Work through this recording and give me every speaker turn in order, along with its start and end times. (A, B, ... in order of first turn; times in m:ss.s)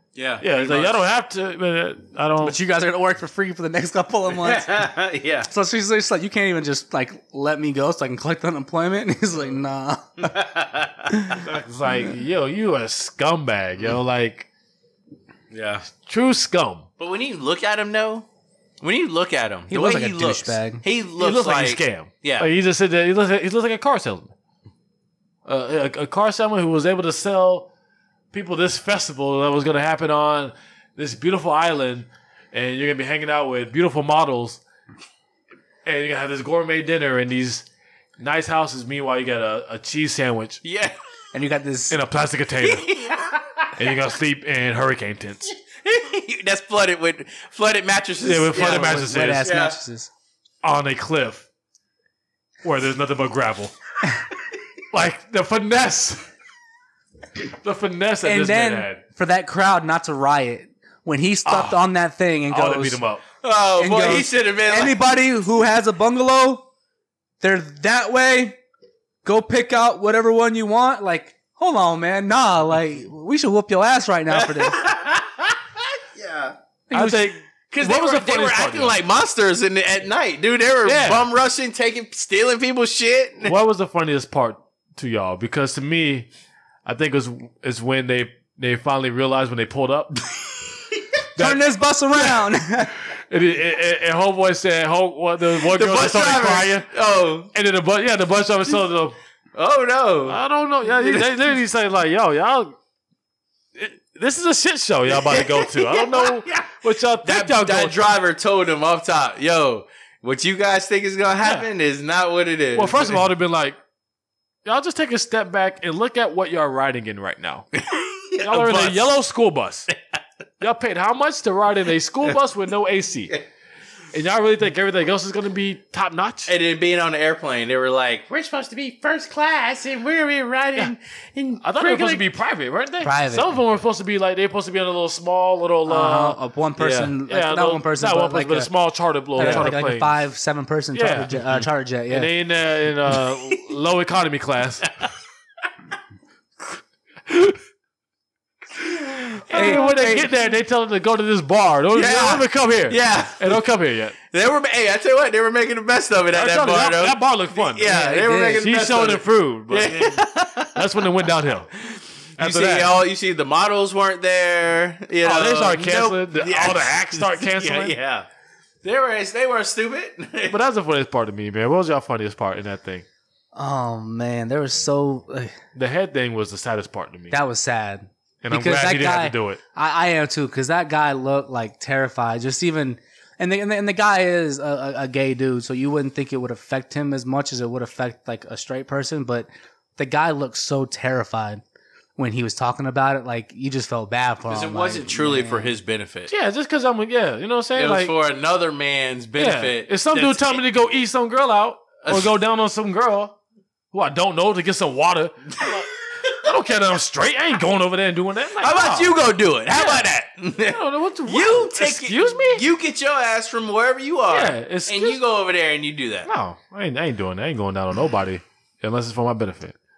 0:00.2-0:01.0 A
0:00.4-0:02.6 B
0:02.4-0:04.9 C
0:04.4-0:05.5 A
0:05.5-0:10.3 C
0:10.2-0:11.3 A
0:11.1-0:11.4 C
0:11.4-0:14.5 B
0:15.5-0:15.9 A
0:15.9-0:16.8 B
0:17.0-0:18.3 A
0:18.8-0:22.5 A
0:19.7-0:20.8 C
0:21.2-0:24.3 B
0:25.4-0:27.7 B
0:28.3-0:34.6 B
0:35.8-0:37.7 B
0:38.2-0:40.6 B
0:40.6-0:41.0 A
0:41.3-0:42.0 C
0:41.9-0:42.9 B
0:42.6-0:43.7 A
0:43.8-0:45.5 B
0:45.8-0:49.8 A
0:48.2-0:49.5 B
0:48.5-0:50.1 C
0:50.6-0:51.5 B
0:52.6-0:53.8 B
0:54.9-0:56.3 B
0:57.5-0:59.0 B
0:58.2-1:03.0 C
1:01.5-1:01.8 B
1:02.5-1:03.2 B
1:03.4-1:05.0 A
1:03.8-1:06.7 C
1:07.4-1:08.6 C
1:09.2-1:14.8 C
1:14.3-1:16.6 A
1:16.9-1:17.4 C
1:16.9-1:19.0 B
1:17.8-1:23.6 A
1:20.8-1:21.3 B
1:23.4-1:26.3 B
1:26.8-1:30.2 B
1:30.9-1:31.2 A
1:31.4-1:32.3 B
1:31.4-1:33.0 C
1:33.1-1:36.9 B
1:35.6-1:37.5 A
1:37.5-1:39.2 B
1:39.6-1:41.3 A
1:40.3-1:42.8 B
1:43.8-1:48.0 B
1:45.1-1:53.2 A
1:51.4-1:51.7 B
1:52.8-1:53.8 B
1:54.6-1:57.7 B
1:57.8-1:59.1 A
1:58.4-1:59.9 B
2:00.6-2:03.4 B
2:04.1-2:06.5 B
2:06.5-2:12.2 A
2:11.6-2:20.2 B
2:13.0-2:13.6 C
2:15.9-2:18.7 C
2:19.4-2:22.3 C
2:19.4-2:19.7 A
2:20.9-2:24.9 B
2:27.3-2:27.6 A
2:28.8-2:29.9 A
2:29.5-2:34.2 B
2:29.5-2:30.3 C
2:31.9-2:33.6 A
2:34.3-2:41.1 A
2:36.3-2:38.0 B
2:37.8-2:38.7 C
2:38.5-2:41.7 B
2:41.8-2:48.3 A
2:42.4-2:43.0 B
2:45.2-2:48.0 B
2:48.8-2:50.6 A
2:50.5-2:53.1 B
2:53.6-2:55.6 C
2:55.8-2:57.3 B
2:57.3-3:11.6 C
2:58.4-2:59.6 B
3:12.2-3:15.7 C
3:14.5-3:16.3 A
3:16.3-3:18.1 B
3:17.8-3:20.6 A
3:19.4-3:23.4 B
3:22.0-3:22.3 A
3:23.9-3:30.1 B
3:25.6-3:26.4 A
3:28.6-3:36.3 A
3:30.6-3:32.6 B
3:34.3-3:35.2 B
3:36.3-3:39.8 B